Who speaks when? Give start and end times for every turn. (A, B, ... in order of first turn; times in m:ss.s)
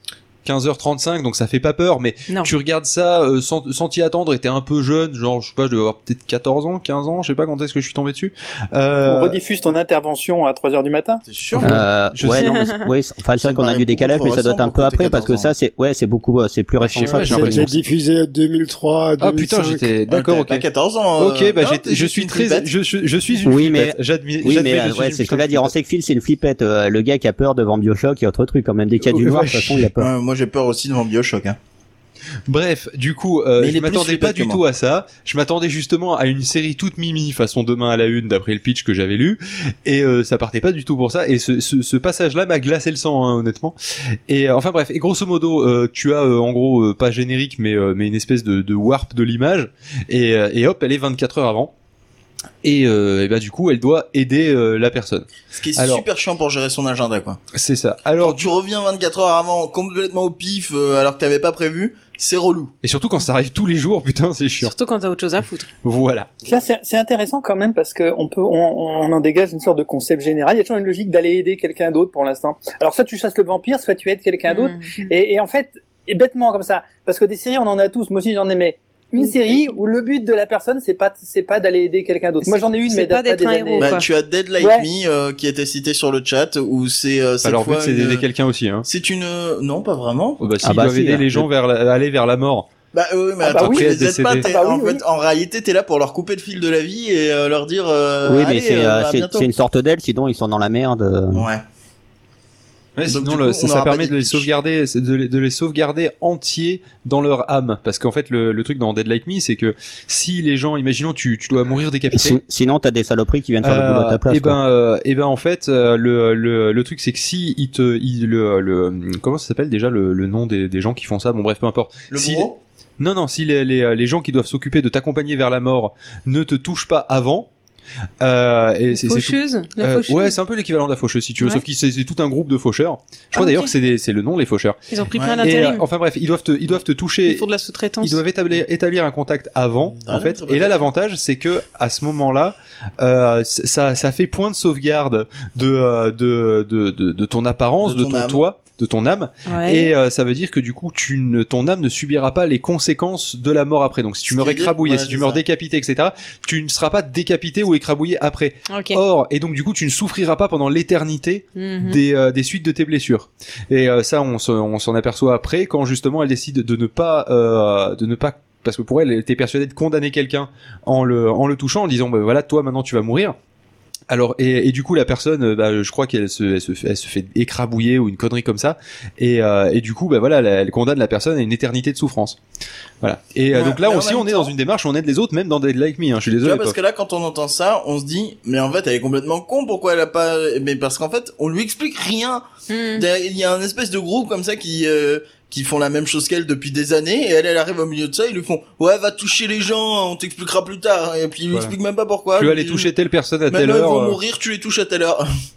0:00.4-0:09.4 A
0:09.0-0:11.2 B
0:11.2-0:11.7 C
0:11.5-0:12.5 A
0:11.6-0:17.7 D
0:12.4-0:12.8 E
0:13.4-0:15.5 C
0:16.8-0:17.8 A
0:17.0-0:19.9 F
0:19.2-0:20.6 A
0:20.1-0:22.7 C
0:21.2-0:25.7 A
0:23.4-0:30.1 D
0:29.0-0:29.9 A
0:30.0-0:31.6 C
0:32.5-0:43.8 A
0:33.6-0:34.6 C
0:44.3-0:51.7 A
0:52.6-0:56.0 A
0:55.5-0:57.4 C
0:57.5-0:58.5 A
0:58.2-1:02.7 C
1:02.8-1:04.7 A
1:04.6-1:05.7 E
1:05.8-1:06.3 A
1:06.4-1:24.0 B
1:14.5-1:15.1 E
1:22.4-1:24.0 E
1:23.8-1:28.2 C
1:24.6-1:24.9 B
1:27.4-1:28.8 A
1:28.8-1:30.4 C
1:30.4-1:32.7 A
1:30.6-1:31.5 D
1:32.9-1:39.5 C
1:33.4-1:35.0 B
1:33.6-1:34.5 A
1:38.2-1:41.5 D
1:41.3-1:41.6 C
1:43.0-1:52.4 A
1:43.1-1:44.5 C
1:52.1-1:54.6 D
1:53.6-2:07.5 A
2:02.1-2:02.6 C
2:08.2-2:14.8 A
2:08.9-2:10.4 E
2:11.4-2:11.6 E
2:13.3-2:13.7 E
2:14.9-2:15.8 E
2:15.1-2:15.6 C
2:15.4-2:17.4 A
2:17.2-2:18.2 E
2:18.0-2:53.4 A
2:20.0-2:20.8 C
2:27.8-2:28.4 C
2:29.5-2:29.9 E
2:34.3-2:35.4 C
2:38.7-2:39.0 E
2:41.6-2:42.0 E
2:54.1-3:02.4 A
3:03.0-3:06.8 A
3:03.5-3:04.5 C
3:06.4-3:12.4 C
3:12.7-3:13.0 E
3:12.9-3:22.9 C
3:22.4-3:24.2 A
3:23.5-3:25.2 C